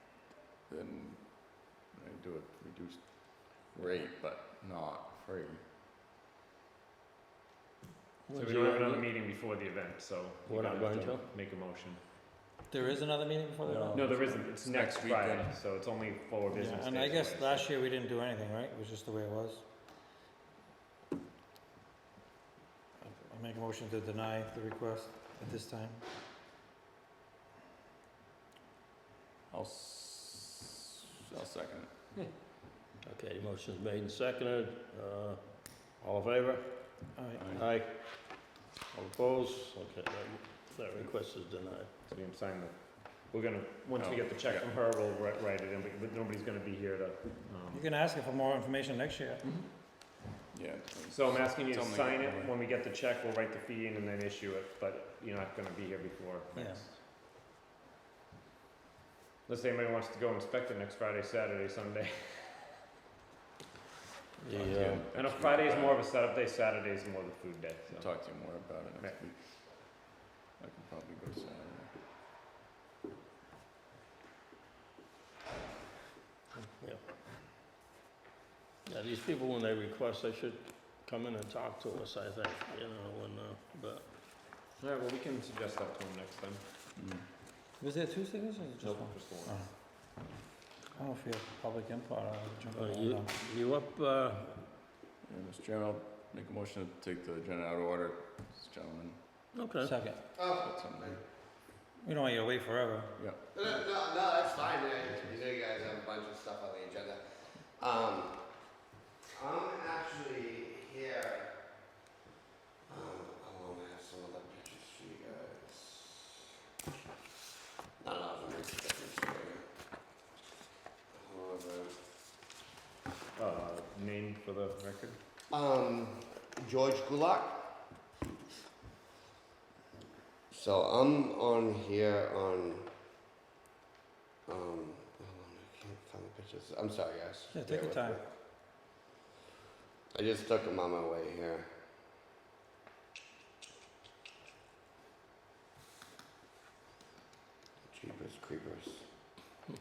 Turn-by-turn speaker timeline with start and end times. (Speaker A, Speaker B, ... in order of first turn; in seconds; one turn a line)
Speaker A: 0.7-5.6
Speaker B: 8.3-9.1
Speaker C: 8.3-12.0
Speaker B: 10.5-11.2
Speaker D: 12.7-14.2
Speaker A: 13.6-15.6
Speaker C: 13.9-17.7
Speaker D: 16.5-19.6
Speaker D: 23.0-26.0
Speaker A: 29.5-31.9
Speaker B: 33.0-36.8
Speaker D: 37.1-37.5
Speaker A: 37.4-37.6
Speaker B: 37.5-38.1
Speaker A: 38.9-39.2
Speaker B: 39.1-41.9
Speaker C: 42.1-47.9
Speaker A: 44.0-44.7
Speaker D: 47.7-49.5
Speaker A: 50.5-52.4
Speaker C: 51.1-57.0
Speaker C: 59.5-62.6
Speaker B: 64.4-65.1
Speaker A: 64.5-66.0
Speaker C: 65.1-68.1
Speaker A: 67.9-69.4
Speaker A: 70.6-71.9
Speaker B: 76.5-77.0
Speaker B: 78.8-84.1
Speaker C: 84.8-86.6
Speaker A: 87.0-87.2
Speaker D: 87.8-89.7
Speaker C: 88.8-89.6
Speaker D: 91.0-93.3
Speaker B: 92.7-94.7
Speaker A: 95.3-99.2
Speaker B: 99.5-100.0
Speaker D: 99.8-100.2
Speaker E: 100.3-101.2
Speaker A: 100.6-101.2
Speaker D: 102.0-103.2
Speaker A: 103.2-103.4
Speaker E: 103.5-107.2
Speaker E: 107.8-108.4
Speaker E: 109.3-111.6
Speaker E: 112.9-116.4
Speaker E: 118.0-119.6
Speaker E: 121.1-122.0
Speaker C: 123.4-125.2
Speaker E: 125.5-127.7
Speaker E: 130.5-132.9
Speaker E: 134.5-138.2
Speaker D: 137.5-138.2
Speaker E: 140.1-141.7
Speaker E: 147.9-149.0